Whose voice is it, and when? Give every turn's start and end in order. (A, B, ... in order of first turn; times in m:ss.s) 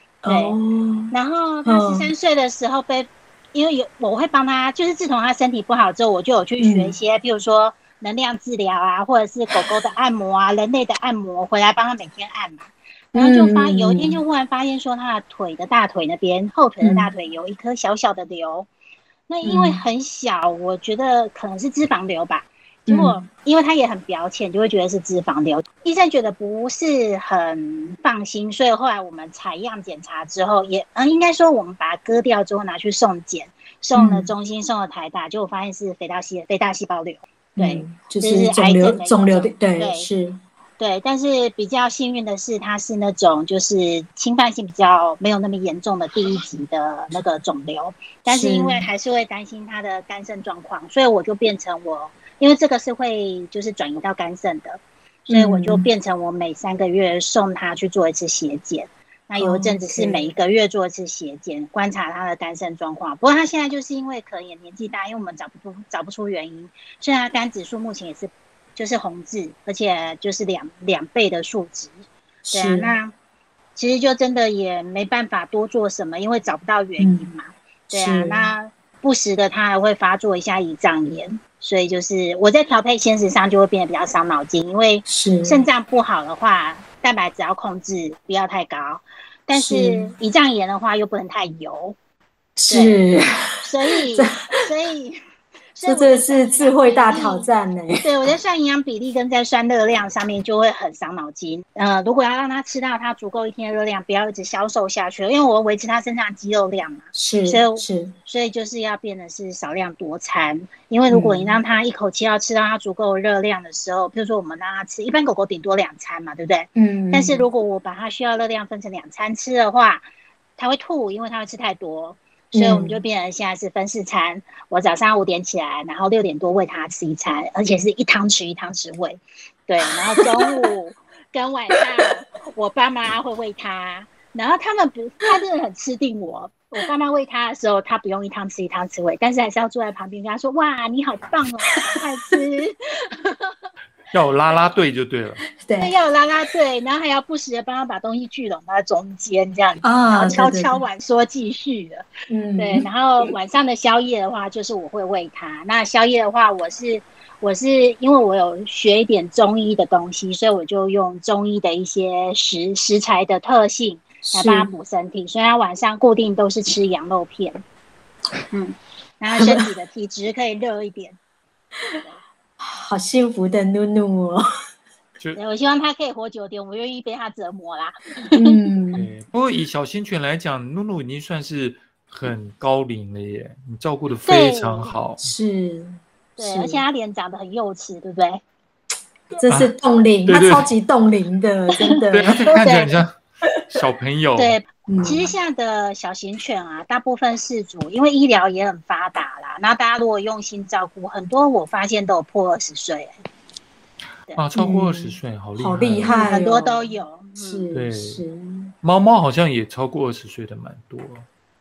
0:00.2-0:01.1 A
0:00.3-0:00.6 B
0:01.1-0:18.7 B
0:01.6-0:02.1 A
0:06.6-0:07.0 A
0:13.2-0:14.2 A
0:16.8-0:17.1 A
0:19.3-0:40.1 B
0:19.4-0:19.8 A
0:22.9-0:23.2 A
0:34.0-0:34.3 A
0:37.6-0:40.4 A
0:40.8-1:12.0 B
0:48.3-0:48.9 A
0:55.3-0:55.9 A
0:59.4-1:00.3 A
1:12.5-1:12.9 A
1:12.5-1:13.1 B
1:13.8-1:32.0 B
1:17.0-1:17.3 A
1:17.9-1:18.5 A
1:25.1-1:25.6 A
1:29.5-1:30.2 A
1:32.6-1:33.5 A
1:32.7-1:33.0 B
1:33.6-1:35.2 B
1:34.1-1:34.5 A
1:35.8-1:37.5 B
1:35.8-1:38.3 A
1:38.0-2:00.1 B
1:47.1-1:48.1 A
1:51.1-1:51.6 A
1:56.8-1:57.5 A
2:00.6-2:23.6 B
2:02.6-2:03.0 A
2:10.1-2:10.7 A
2:24.1-2:25.4 C
2:25.6-2:25.9 A
2:25.8-2:47.6 B
2:29.8-2:30.8 A
2:32.3-2:32.9 A
2:44.2-2:44.7 A
2:48.5-2:51.2 B
2:49.3-2:49.7 A
2:52.6-2:54.4 A
2:55.4-2:58.5 B
2:58.3-2:59.0 A
2:59.0-3:05.3 C
3:04.3-3:04.9 B
3:05.2-3:06.8 A
3:06.4-3:08.4 B
3:09.4-3:12.8 A
3:09.5-3:09.7 C
3:10.3-3:10.7 C
3:12.0-3:12.9 B
3:12.1-3:13.2 C
3:13.7-3:14.6 C
3:14.4-3:23.1 B
3:14.9-3:15.3 A
3:24.4-3:26.3 C
3:24.6-3:28.7 A
3:26.1-3:27.7 B
3:27.7-3:28.2 C
3:28.8-3:31.3 C